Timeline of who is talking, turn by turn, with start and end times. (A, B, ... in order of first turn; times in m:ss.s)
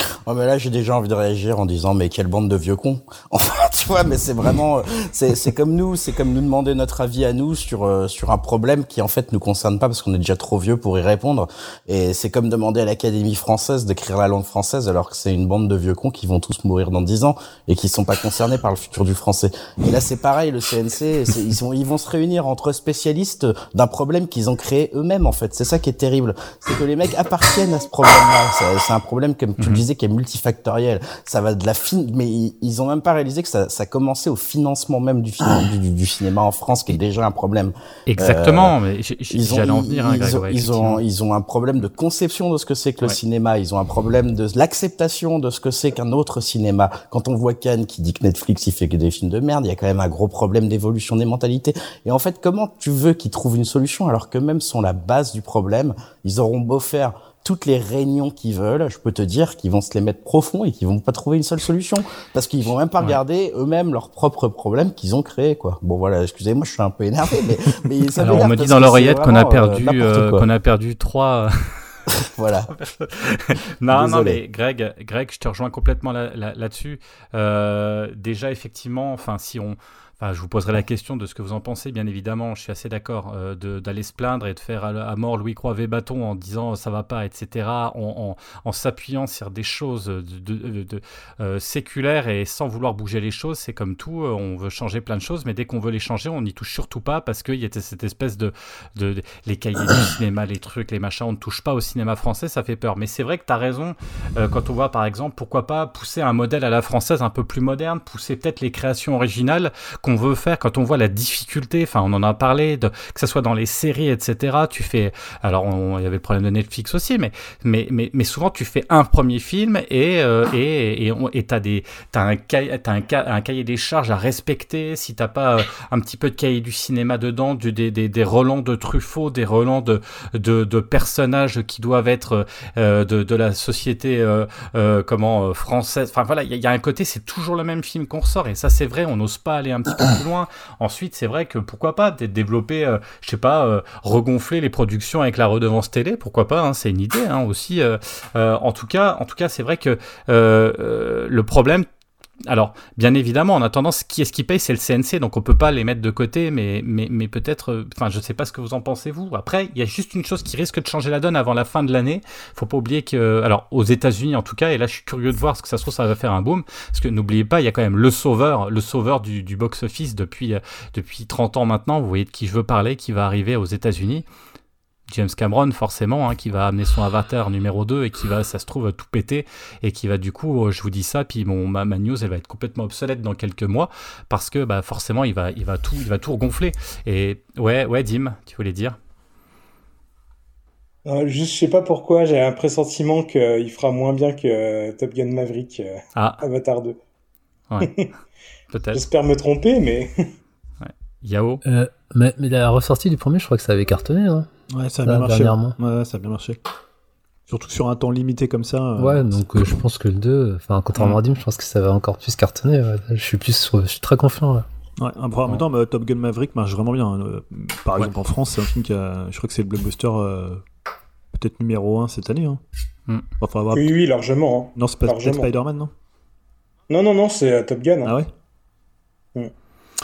0:00.2-0:38.7 A
0:38.1-0:41.0 B
0:39.3-1:10.4 A
1:08.2-1:11.9 B
1:12.2-1:12.7 A
1:12.7-2:31.8 B
1:13.9-1:14.4 A
2:32.5-2:54.2 B
2:55.1-3:09.0 B
3:11.0-3:17.0 C
3:16.2-3:16.4 B
3:18.7-3:19.0 B
3:18.9-3:20.1 C
3:20.8-3:21.6 B
3:21.6-3:24.5 D
3:24.7-3:26.6 E
3:25.0-3:25.8 D
3:27.5-3:29.8 E
3:29.0-3:34.6 D
3:30.9-3:31.2 B
3:35.0-3:40.6 E
3:41.3-3:42.6 E
3:43.4-3:43.9 E
3:43.7-3:45.5 C
3:44.8-3:45.9 E
3:46.9-3:48.1 C
3:48.0-3:48.3 E